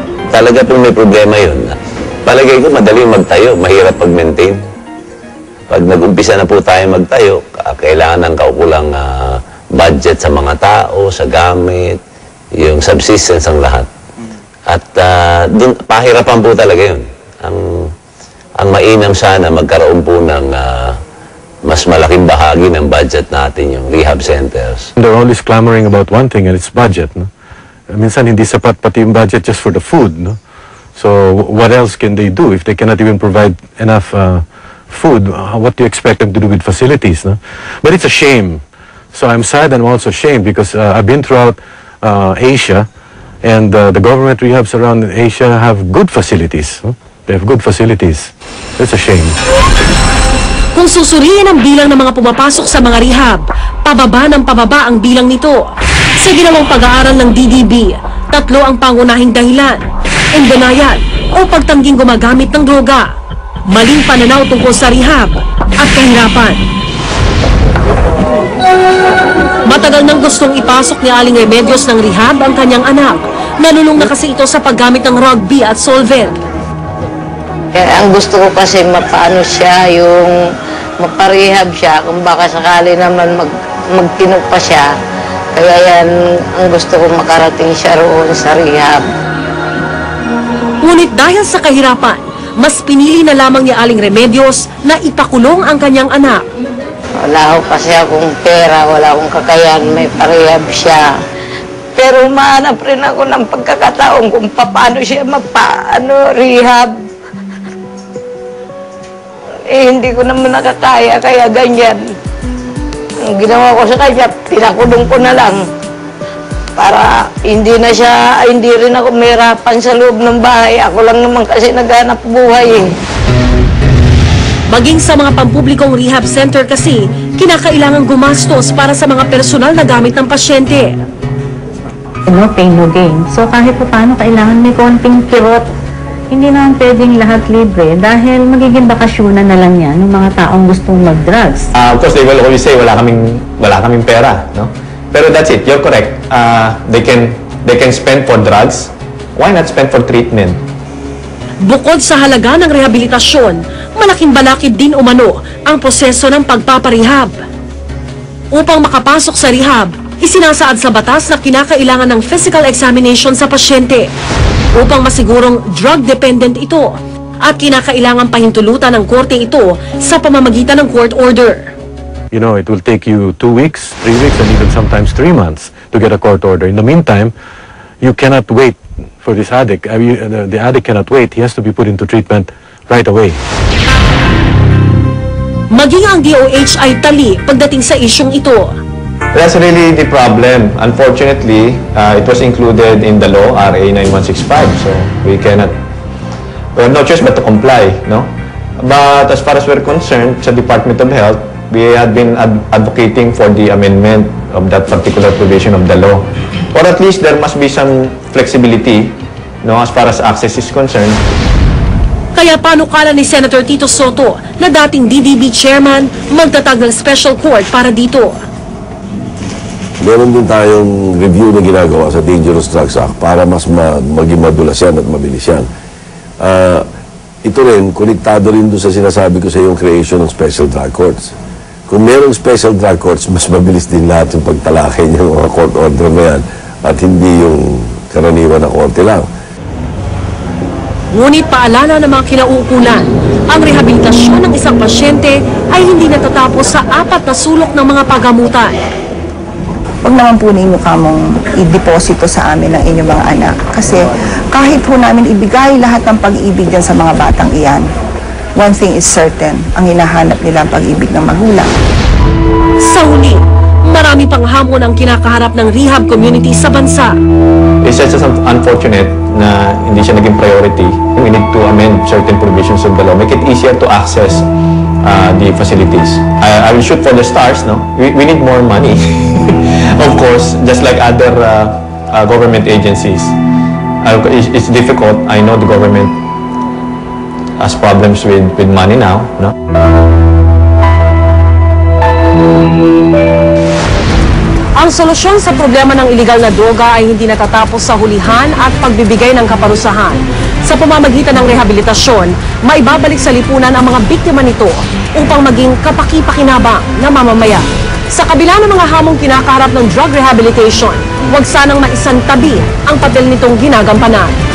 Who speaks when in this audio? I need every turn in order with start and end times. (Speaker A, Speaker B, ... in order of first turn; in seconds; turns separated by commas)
Speaker A: 0.3-1.7, Speaker A: 2.3-4.6, Speaker A: 5.7-12.0, Speaker A: 12.6-13.9, Speaker A: 14.7-17.9, Speaker A: 18.6-21.0, Speaker A: 21.6-24.9, Speaker B: 25.0-27.3, Speaker B: 27.9-30.4, Speaker B: 30.9-38.6, Speaker B: 39.1-42.9, Speaker B: 43.4-49.4, Speaker C: 50.8-55.6, Speaker C: 56.2-59.8, Speaker C: 60.3-63.1, Speaker C: 63.7-66.6, Speaker C: 69.7-76.4, Speaker D: 77.7-80.3, Speaker D: 81.0-84.9, Speaker D: 85.5-89.0, Speaker C: 90.8-96.4, Speaker D: 97.2-101.1, Speaker D: 102.0-106.9, Speaker D: 109.7-112.1, Speaker D: 113.3-115.7, Speaker D: 116.8-123.0, Speaker C: 124.7-131.0, Speaker E: 132.3-135.7, Speaker E: 136.3-141.7, Speaker F: 141.8-150.6, Speaker C: 151.6-157.3, Speaker C: 158.5-164.1, Speaker C: 164.8-171.7, Speaker B: 172.3-177.3, Speaker B: 178.0-183.4, Speaker C: 185.7-188.7, Speaker F: 189.3-195.8, Speaker F: 196.8-211.2, Speaker C: 212.3-218.4, Speaker G: 220.0-225.7, Speaker G: 226.4-226.8, Speaker G: 227.4-231.3, Speaker G: 231.9-239.3, Speaker C: 241.1-248.8, Speaker H: 250.0-257.9, Speaker H: 258.6-261.7, Speaker C: 262.8-267.1, Speaker F: 267.8-274.5, Speaker F: 275.0-283.4, Speaker F: 284.0-286.2, Speaker F: 287.6-289.5, Speaker C: 294.8-314.3